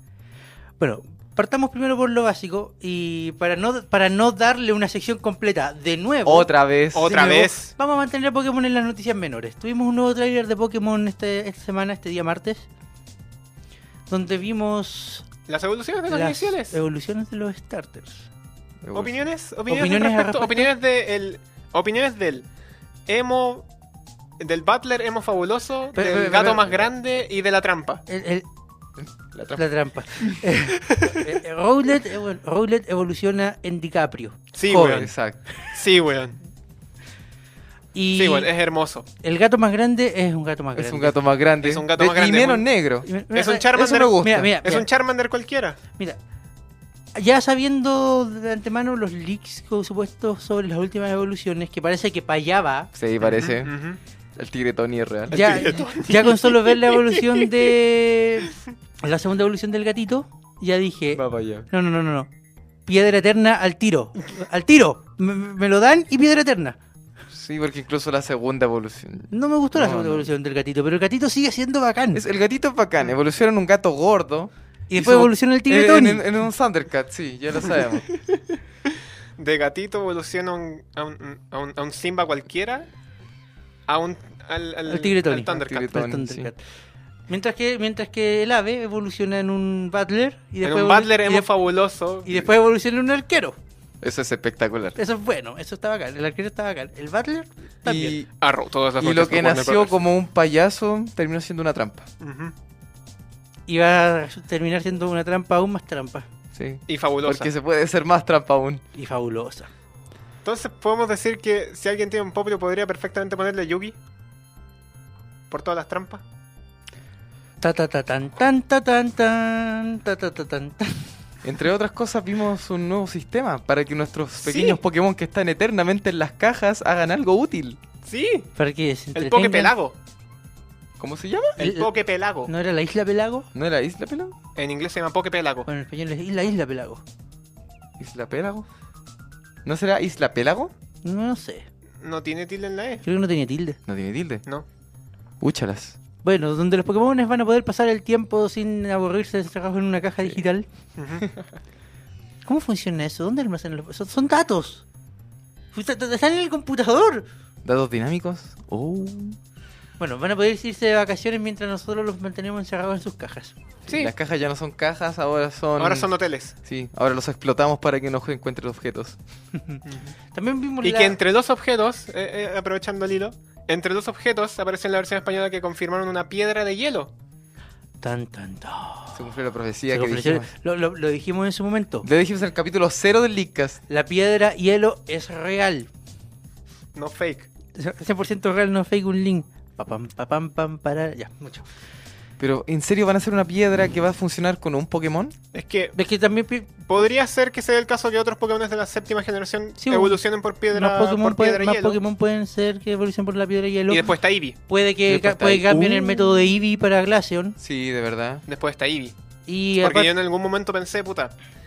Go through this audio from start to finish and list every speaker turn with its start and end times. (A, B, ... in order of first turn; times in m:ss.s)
0:00.8-0:06.5 A
0:06.2-0:07.3 B
0:06.9-0:07.7 C
0:07.0-0:12.7 A
0:14.1-0:15.3 A
0:15.5-0:16.8 C
0:16.1-0:18.3 A
0:18.8-0:19.2 B
0:18.9-0:22.5 C
0:19.7-0:20.7 A
0:23.1-0:23.7 C
0:24.4-0:28.0 C
0:25.9-0:26.7 A
0:28.1-0:28.4 A
0:29.0-0:29.7 B
0:29.6-0:35.1 A
0:30.8-0:31.2 C
0:34.5-0:35.1 C
0:34.8-0:35.4 B
0:35.7-0:36.4 C
0:37.9-0:38.5 A
0:38.1-0:39.0 C
0:39.2-0:41.1 A
0:40.8-0:43.1 B
0:41.6-0:42.7 C
0:43.0-0:44.9 A
0:43.3-0:45.8 C
0:43.8-0:44.5 B
0:47.1-0:52.9 A
0:52.9-0:53.7 B
0:53.2-0:54.0 C
0:54.4-0:55.8 B
0:55.3-0:57.6 C
0:55.3-1:02.3 A
1:01.1-1:01.7 B
1:02.9-1:06.8 A
1:07.3-1:10.3 B
1:09.3-1:12.2 A
1:12.1-1:18.1 B
1:14.9-1:16.2 A
1:19.4-1:22.9 C
1:23.9-1:25.9 C
1:24.9-1:26.6 A
1:25.6-1:26.5 B
1:27.3-1:31.5 A
1:30.6-1:32.3 C
1:32.2-1:33.6 A
1:34.0-1:35.0 B
1:35.0-1:38.1 A
1:37.8-1:38.3 B
1:38.4-1:40.0 C
1:39.0-1:42.1 B
1:42.2-1:42.5 C
1:43.7-1:46.2 A
1:46.5-1:48.8 B
1:46.9-1:47.5 C
1:48.9-1:49.7 A
1:50.4-1:53.9 C
1:55.5-1:56.2 C
1:57.6-2:01.1 A
2:01.4-2:07.8 B
2:04.4-2:04.8 C
2:08.0-2:08.5 C
2:08.6-2:09.7 A
2:09.1-2:09.9 C
2:11.0-2:11.6 B
2:11.6-2:12.5 C
2:11.6-2:11.9 A
2:12.4-2:13.5 A
2:13.5-2:14.4 B
2:14.6-2:15.7 C
2:15.7-2:17.0 A
2:18.0-2:18.7 B
2:19.6-2:20.7 B
2:21.0-2:21.7 A
2:22.0-2:23.0 C
2:23.0-2:23.8 A
2:23.9-2:24.4 B
2:25.4-2:26.0 B
2:26.2-2:30.6 A
2:31.0-2:31.3 C
2:32.4-2:34.9 A
2:35.7-2:37.3 A
2:37.6-2:39.4 B
2:40.0-2:43.6 A
2:43.9-2:46.1 B
2:43.9-2:44.1 C
2:45.8-2:46.6 C
2:46.6-2:49.2 B
2:49.5-2:51.2 A
2:49.9-2:50.1 C
2:50.8-2:57.1 C
2:58.0-2:59.2 A
2:59.1-3:00.5 B
2:59.9-3:02.1 A
3:02.0-3:03.8 B
3:03.9-3:05.9 A
3:06.9-3:07.5 C
3:07.8-3:11.7 A
3:12.4-3:15.4 B
3:15.5-3:16.0 C
3:15.9-3:16.9 A
3:16.9-3:22.0 C
3:19.8-3:20.2 A
3:20.7-3:24.1 A
3:23.9-3:24.6 C
3:24.7-3:27.6 A
3:25.1-3:26.5 B
3:27.6-3:28.4 B
3:28.5-3:29.1 C
3:29.5-3:30.1 A
3:29.8-3:31.3 C